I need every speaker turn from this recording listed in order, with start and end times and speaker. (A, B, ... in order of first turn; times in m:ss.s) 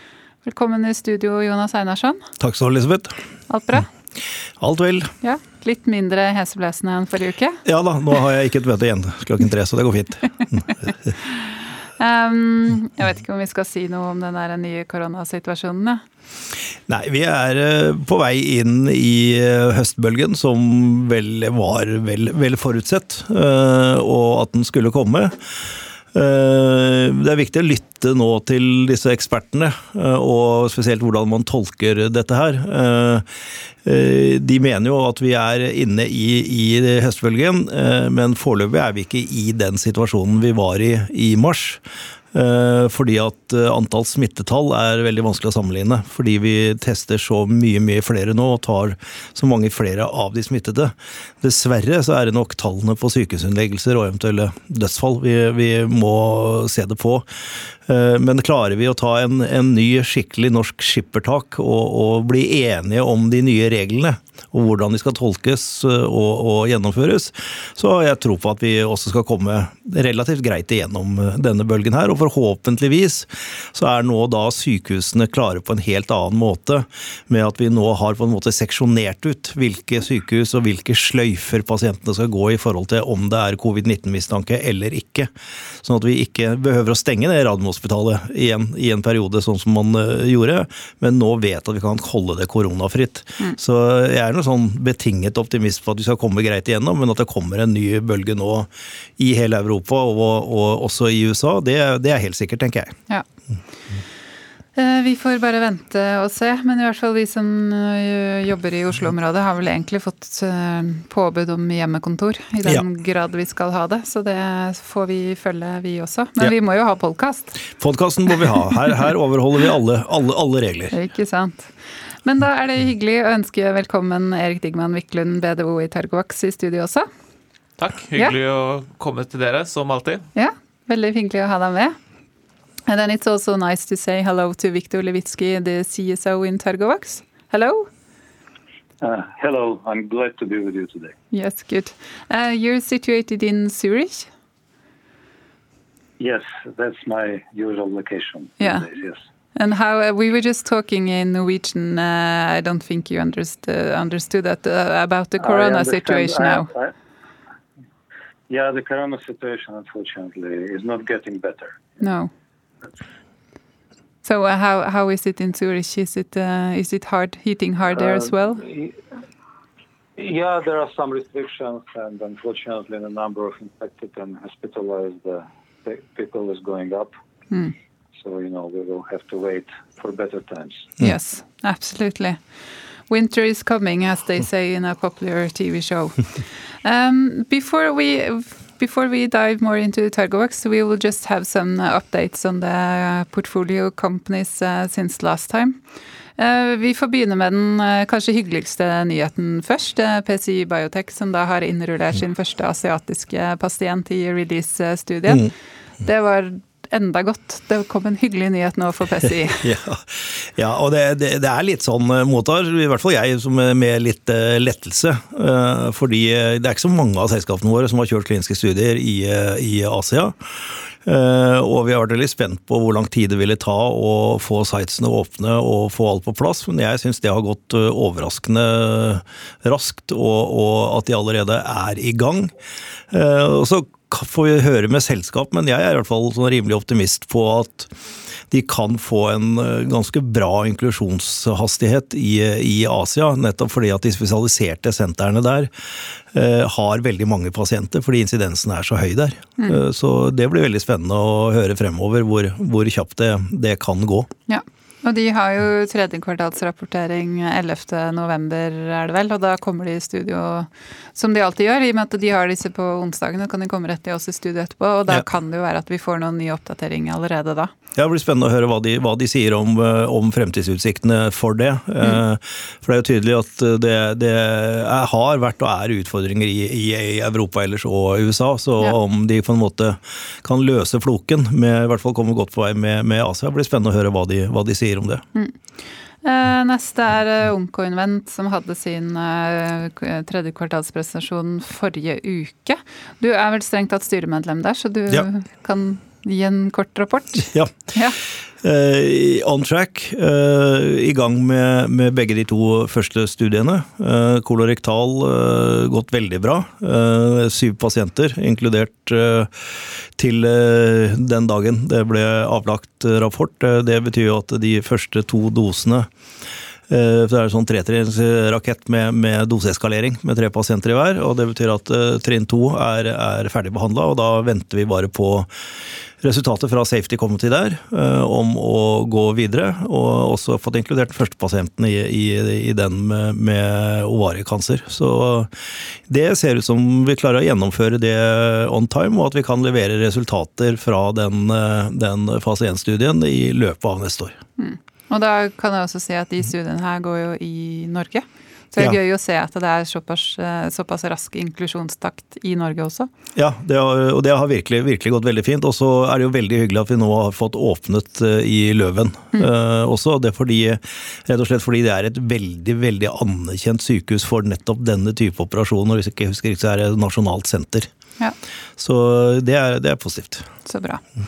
0:00.4-0:02.3 A
0:02.4-0:03.2 B
0:03.5-0:03.9 A
0:04.6-0:05.1 B
0:05.2-0:07.6 A
0:07.6-0:10.6 B
0:12.0-0:16.0 A
0:16.9-0:25.3 B
0:26.1-0:33.2 B
0:33.8-0:41.8 B
0:42.3-0:57.2 B
0:57.8-1:42.9 B
1:44.7-1:57.6 A
1:57.8-2:00.9 B
2:00.9-2:07.1 A
2:07.8-2:10.3 C
2:10.3-2:12.0 A
2:12.9-2:17.9 A
2:19.0-2:21.2 D
2:21.3-2:24.3 A
2:26.2-2:29.2 D
2:28.6-2:28.9 A
2:29.6-2:36.7 A
2:35.4-2:36.9 D
2:38.5-2:41.8 D
2:42.0-2:42.3 A
2:44.2-2:48.6 A
2:48.0-2:49.0 D
2:50.2-2:57.1 D
2:58.1-3:00.9 D
3:01.0-3:02.4 A
3:03.1-3:15.8 A
3:16.4-3:29.7 A
3:29.6-3:52.5 B
3:53.1-3:57.9 B
3:58.5-4:05.7 B
4:06.3-4:14.3 B
4:14.5-4:27.7 A
4:27.9-4:45.2 B
4:46.2-4:58.2 A
4:58.6-5:16.1 B
5:16.9-5:25.5 B
5:26.2-5:35.5 B
5:36.1-5:44.4 B
5:44.6-5:53.1 A
5:53.4-6:07.9 B
6:08.8-6:10.4 B
6:10.6-6:11.0 A